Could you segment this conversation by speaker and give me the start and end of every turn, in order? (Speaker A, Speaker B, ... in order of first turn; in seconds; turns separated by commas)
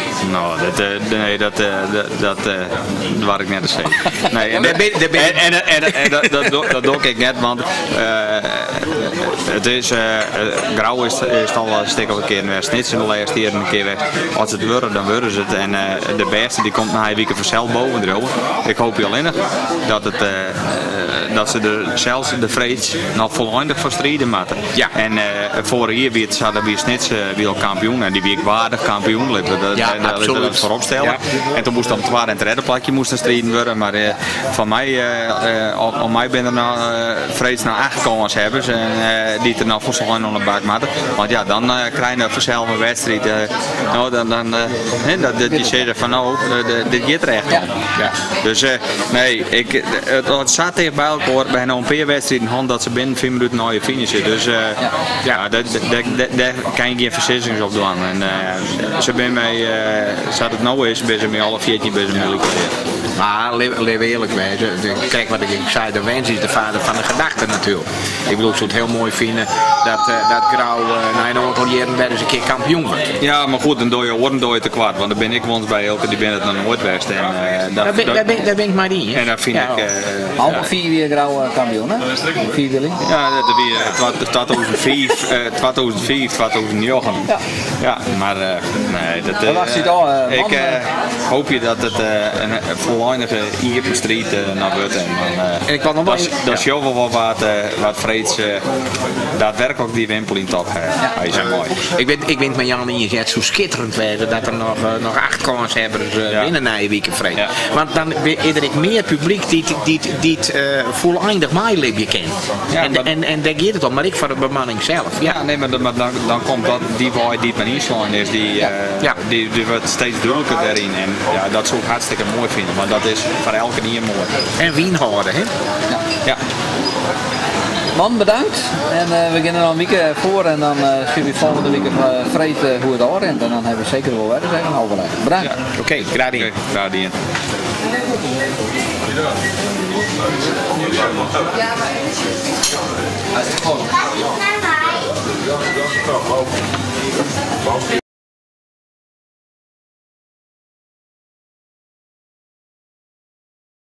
Speaker A: 0.2-47.7, Speaker B: 4.3-6.8, Speaker B: 29.8-31.2, Speaker A: 48.4-62.8, Speaker B: 63.2-73.1, Speaker A: 73.2-78.4, Speaker B: 77.8-79.9, Speaker A: 79.1-80.7, Speaker C: 80.4-83.0, Speaker A: 83.0-87.3, Speaker A: 87.8-98.7, Speaker C: 89.4-90.8, Speaker B: 95.7-96.6, Speaker A: 99.3-101.8, Speaker B: 101.3-115.4, Speaker A: 112.7-113.1, Speaker A: 115.2-124.3, Speaker B: 124.6-125.5, Speaker C: 127.9-135.5, Speaker B: 135.8-136.5, Speaker A: 136.3-137.1